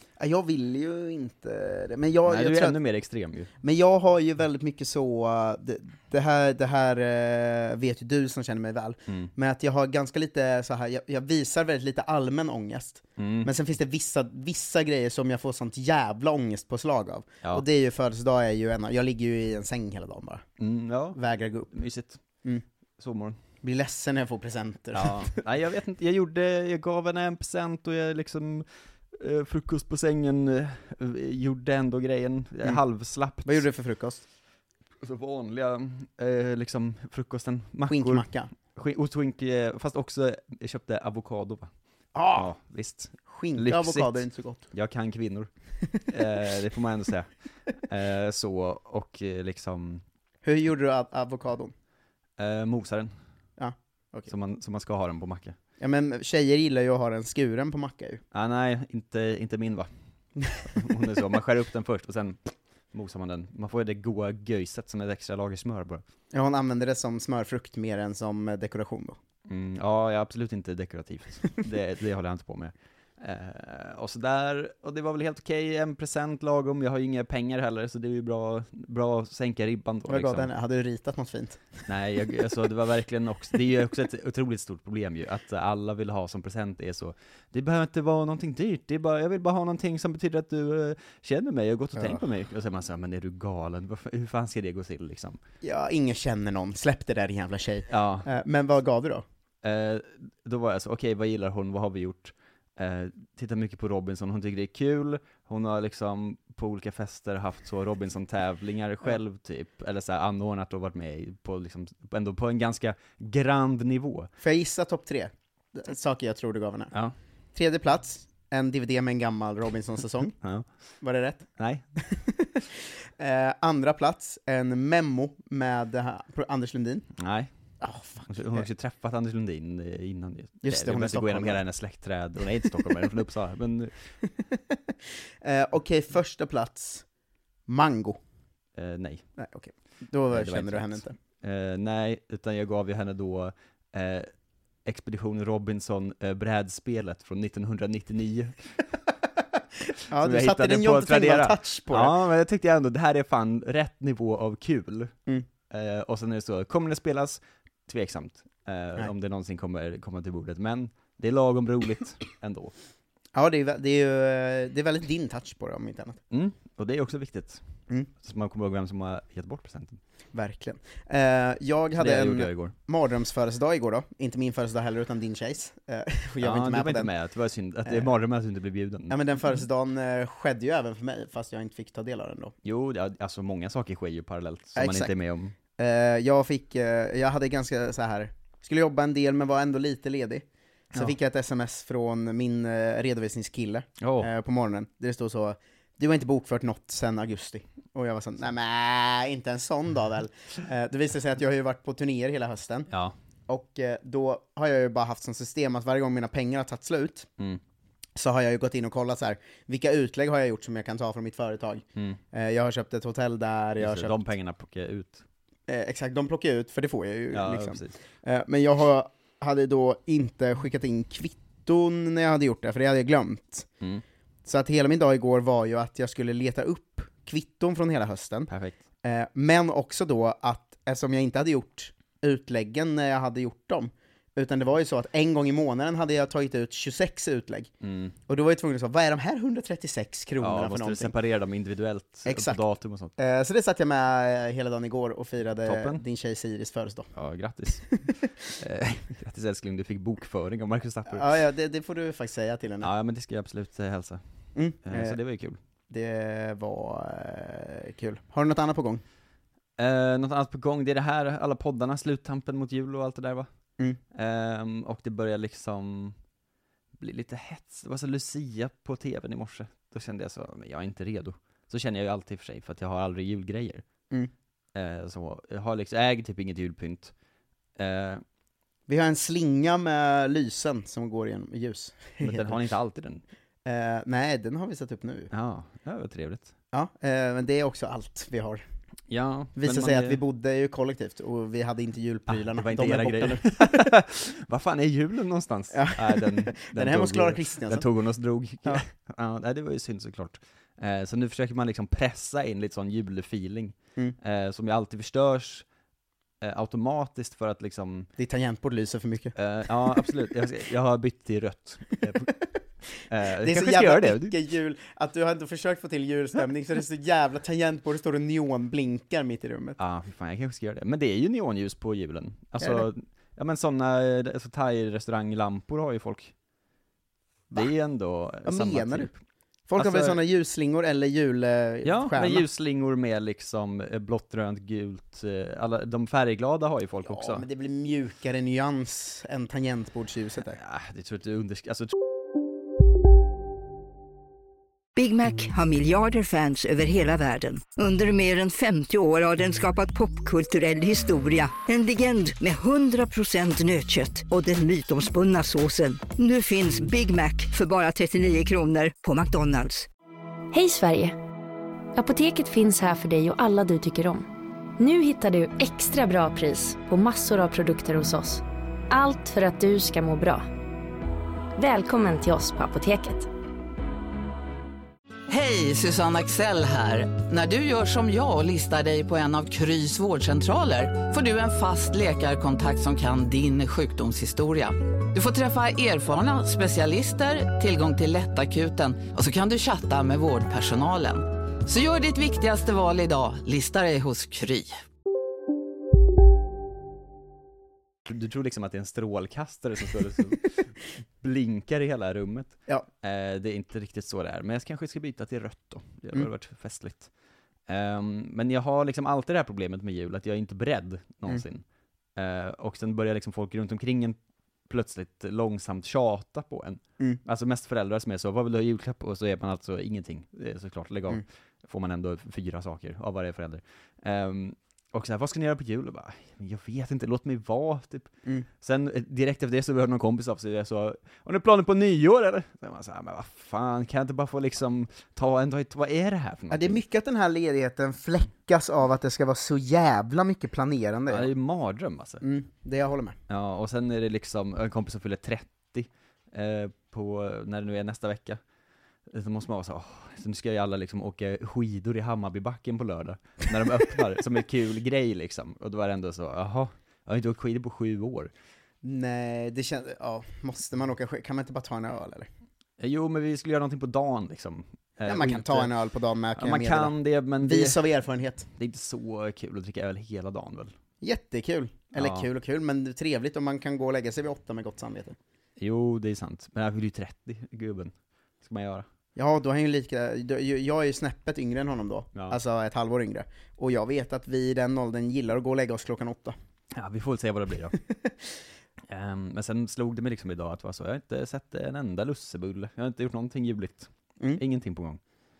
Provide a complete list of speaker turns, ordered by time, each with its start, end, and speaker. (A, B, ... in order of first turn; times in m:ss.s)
0:00.2-0:02.8 A
0:02.3-0:03.5 B
0:03.6-0:20.4 A
0:13.2-0:13.5 B
0:20.6-0:21.2 B
0:21.1-0:21.7 A
0:21.7-0:22.2 B
0:23.0-0:23.4 B
0:23.6-0:25.4 A
0:24.9-0:33.6 B
0:33.4-0:34.2 A
0:35.0-0:41.7 B
0:37.9-0:38.5 A
0:42.1-0:42.5 A
0:42.4-0:45.5 B
0:43.2-0:44.6 A
0:46.2-0:47.2 B
0:47.9-0:50.0 B
0:50.4-0:51.7 A
0:52.4-0:53.2 B
0:53.6-0:54.3 A
0:54.3-0:55.6 B
0:55.8-0:58.2 A
0:58.3-0:59.9 B
1:00.8-1:06.0 B
1:06.3-1:09.2 A
1:09.5-1:20.5 B
1:20.1-1:21.9 A
1:21.9-1:35.4 B
1:32.0-1:32.2 A
1:35.6-1:39.2 A
1:37.9-1:38.3 B
1:39.6-1:54.3 B
1:54.4-1:56.9 A
1:57.5-2:00.3 A
2:01.0-2:02.6 A
2:01.6-2:01.8 B
2:03.2-2:07.0 A
2:07.2-2:07.5 B
2:07.8-2:08.7 A
2:08.4-2:13.9 B
2:10.6-2:11.6 A
2:15.4-2:17.1 A
2:17.7-2:18.2 A
2:18.8-2:19.2 B
2:19.4-2:21.2 A
2:20.3-2:24.3 B
2:24.9-2:28.5 B
2:29.9-2:32.2 A
2:30.2-2:35.1 B
2:35.7-2:42.7 B
2:43.3-2:46.2 A
2:46.3-2:47.6 B
2:48.2-2:50.0 B
2:50.3-2:57.1 A
2:52.0-2:52.7 B
2:56.4-2:59.1 B
2:59.1-3:02.5 A
3:02.6-3:05.5 B
3:04.7-3:05.1 A
3:05.8-3:22.9 A
3:14.0-3:14.3 B
3:23.5-3:27.3 A
3:28.2-3:34.2 A
3:33.8-3:35.2 B
3:35.7-3:43.7 A
3:37.3-3:37.9 B
3:44.4-3:48.5 A
3:48.5-3:48.8 B
3:49.0-3:57.7 A
3:57.8-3:58.1 B
3:58.3-4:01.1 A
4:00.4-4:03.1 B
4:02.2-4:02.6 A
4:03.2-4:07.1 A
4:05.6-4:06.0 B
4:07.2-4:07.8 B
4:08.6-4:11.2 B
4:11.1-4:12.9 A
4:12.8-4:14.2 B
4:14.5-4:15.2 A
4:14.8-4:15.6 B
4:15.9-4:19.0 A
4:19.8-4:23.5 B
4:24.1-4:26.1 B
4:27.0-4:33.8 B
4:34.7-4:37.1 B
4:37.8-4:38.2 B
4:38.9-4:42.6 A
4:42.2-4:43.2 B
4:43.6-4:45.3 A
4:45.3-4:46.5 B
4:46.7-4:48.6 A
4:49.1-4:50.2 B
4:49.5-4:53.5 A
4:52.3-5:03.7 B
4:55.7-4:57.8 A
5:04.2-5:05.6 B
5:06.4-5:08.1 B
5:08.2-5:10.1 A
5:09.4-5:12.2 B
5:13.1-5:14.3 B
5:13.3-5:19.8 A
5:19.8-5:26.3 B
5:22.6-5:22.9 A
5:27.6-5:29.2 B
5:28.4-5:29.1 A
5:29.7-5:32.4 A
5:29.8-5:30.2 B
5:31.8-5:37.4 B
5:37.0-5:40.6 A
5:40.6-5:41.9 B
5:45.0-5:59.8 C
5:45.2-5:45.6 D
5:47.4-5:47.8 D
5:50.9-5:51.8 D
5:53.2-5:58.8 D
6:00.5-6:01.2 E
6:02.0-6:04.3 E
6:04.8-6:10.4 E
6:11.6-6:13.3 E
6:15.3-6:34.8 D
6:38.1-6:40.6 B
6:41.2-6:47.1 B
6:47.7-6:51.6 B
6:52.2-6:54.2 B
6:54.7-7:08.1 B
7:08.6-7:16.8 B
7:16.5-7:21.3 A
7:21.1-7:22.2 B
7:22.2-7:23.2 A
7:23.3-7:28.4 B
7:29.1-7:38.3 B
7:38.8-7:42.3 A
7:42.8-7:45.7 B
7:45.0-7:48.5 A
7:46.4-7:47.8 B
7:48.6-7:50.7 B
7:51.0-7:55.2 A
7:52.0-7:52.2 B
7:55.6-7:57.9 B
7:58.4-7:58.8 B
7:59.2-8:06.3 A
8:06.8-8:07.7 B
8:07.9-8:08.3 A
8:08.9-8:15.0 B